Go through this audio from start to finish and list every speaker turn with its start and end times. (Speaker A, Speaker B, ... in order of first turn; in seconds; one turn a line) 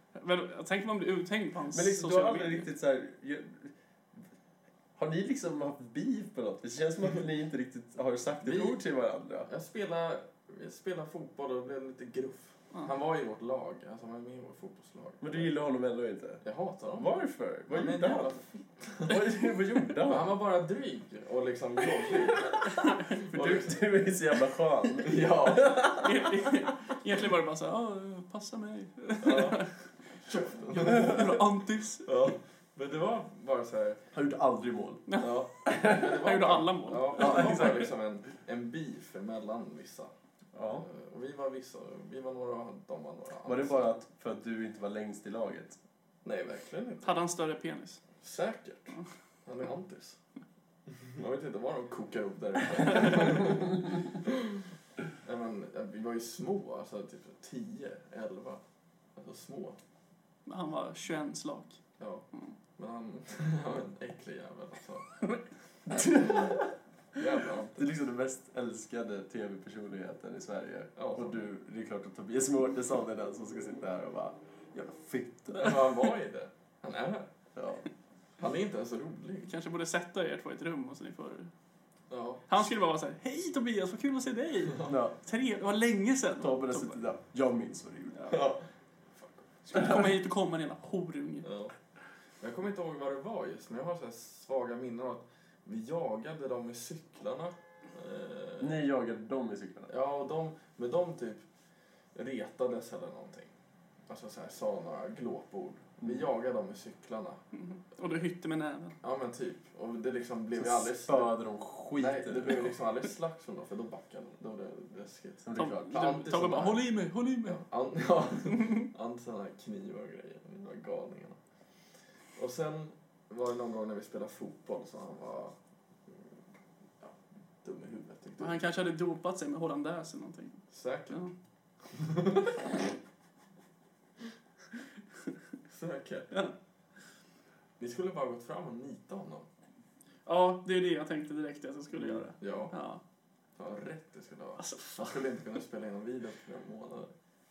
Speaker A: 0.1-2.7
Speaker B: 1.7-3.7
Speaker B: 5.0-9.5
Speaker C: 8.4-8.8
Speaker C: 9.4-15.5
Speaker B: 15.2-16.4
Speaker C: 16.4-19.4
Speaker B: 17.0-18.3
Speaker B: 19.0-20.3
Speaker C: 19.9-23.8
Speaker B: 22.0-26.5
Speaker A: 22.7-23.4
Speaker C: 24.9-25.9
Speaker A: 26.0-29.7
Speaker C: 29.2-29.6
Speaker C: 30.2-31.4
Speaker A: 30.7-32.1
Speaker C: 32.0-34.0
Speaker B: 34.1-35.0
Speaker A: 35.1-37.6
Speaker C: 35.2-40.1
Speaker B: 35.7-36.1
Speaker B: 37.1-37.9
Speaker B: 40.5-40.8
Speaker C: 40.7-44.0
Speaker B: 43.5-45.8
Speaker C: 46.2-47.2
Speaker A: 47.0-48.0
Speaker C: 48.2-50.2
Speaker C: 50.9-54.6
Speaker C: 55.2-58.6
Speaker C: 59.1-59.8
Speaker A: 60.5-61.8
Speaker C: 62.0-62.2
Speaker C: 62.8-65.1
Speaker A: 66.1-66.4
Speaker C: 67.1-67.9
Speaker B: 67.8-75.9
Speaker C: 71.0-71.5
Speaker C: 75.5-77.3
Speaker B: 77.5-77.9
Speaker C: 78.4-79.5
Speaker A: 79.5-81.5
Speaker C: 82.1-82.5
Speaker A: 82.5-87.1
Speaker B: 84.9-85.2
Speaker B: 86.4-88.2
Speaker C: 88.3-88.6
Speaker C: 89.2-89.5
Speaker A: 89.7-91.5
Speaker C: 91.4-91.7
Speaker C: 92.4-98.8
Speaker B: 98.6-99.9
Speaker C: 99.9-101.4
Speaker C: 102.1-103.5
Speaker C: 104.1-107.4
Speaker A: 107.5-109.0
Speaker C: 109.0-111.3
Speaker B: 110.5-112.8
Speaker C: 111.9-116.9
Speaker B: 115.4-116.5
Speaker A: 115.5-117.6
Speaker C: 117.4-121.4
Speaker C: 122.4-125.5
Speaker C: 127.0-128.7
Speaker A: 128.4-131.3
Speaker C: 130.7-131.2
Speaker C: 131.9-132.6
Speaker C: 135.7-136.3
Speaker C: 137.8-139.5
Speaker A: 140.2-143.0
Speaker B: 141.9-142.2
Speaker C: 142.4-142.7
Speaker C: 143.6-147.1
Speaker A: 144.6-145.1